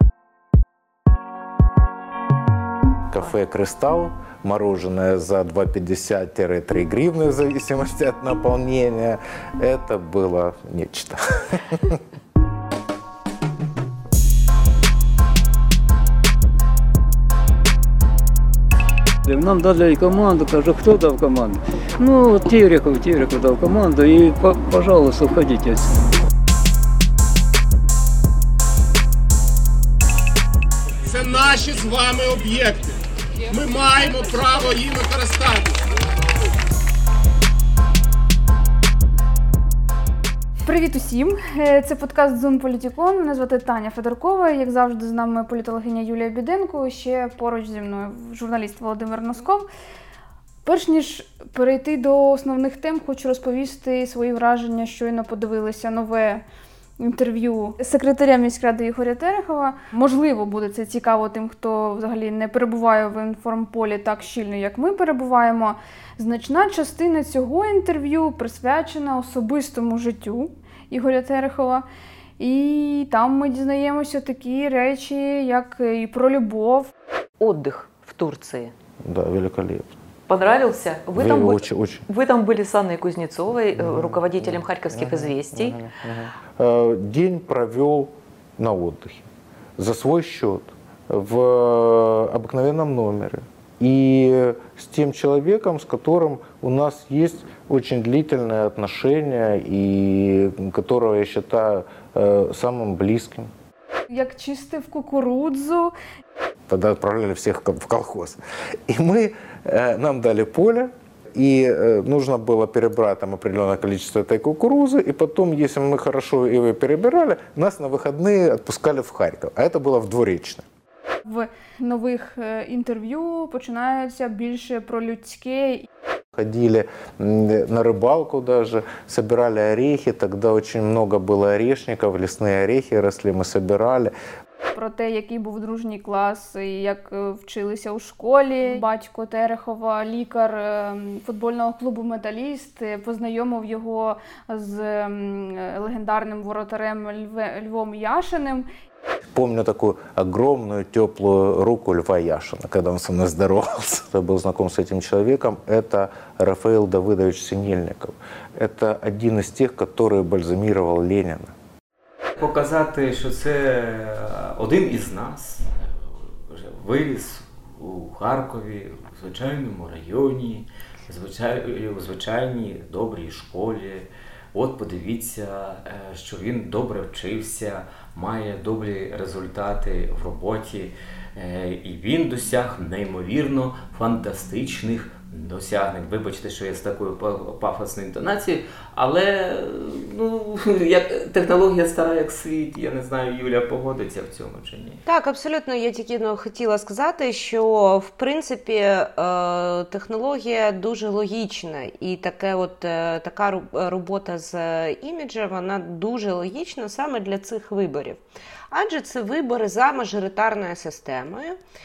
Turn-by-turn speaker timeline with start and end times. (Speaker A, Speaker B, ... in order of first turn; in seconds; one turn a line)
Speaker A: 3.1-12.0
Speaker B: 19.3-25.9
Speaker C: 31.0-33.0
Speaker C: 33.5-35.8
Speaker D: 40.6-49.7
Speaker D: 50.6-56.4
Speaker D: 57.0-71.8
Speaker D: 72.4-76.9
Speaker E: 77.4-78.7
Speaker A: 79.0-79.9
Speaker E: 80.3-85.8
Speaker A: 81.1-82.1
Speaker A: 83.8-89.3
Speaker A: 89.8-103.5
Speaker D: 104.1-105.9
Speaker A: 106.7-120.6
Speaker D: 121.2-125.8
Speaker A: 126.3-134.1
Speaker D: 134.8-148.7
Speaker A: 149.3-161.5
Speaker F: 162.4-195.0
Speaker G: 195.1-211.6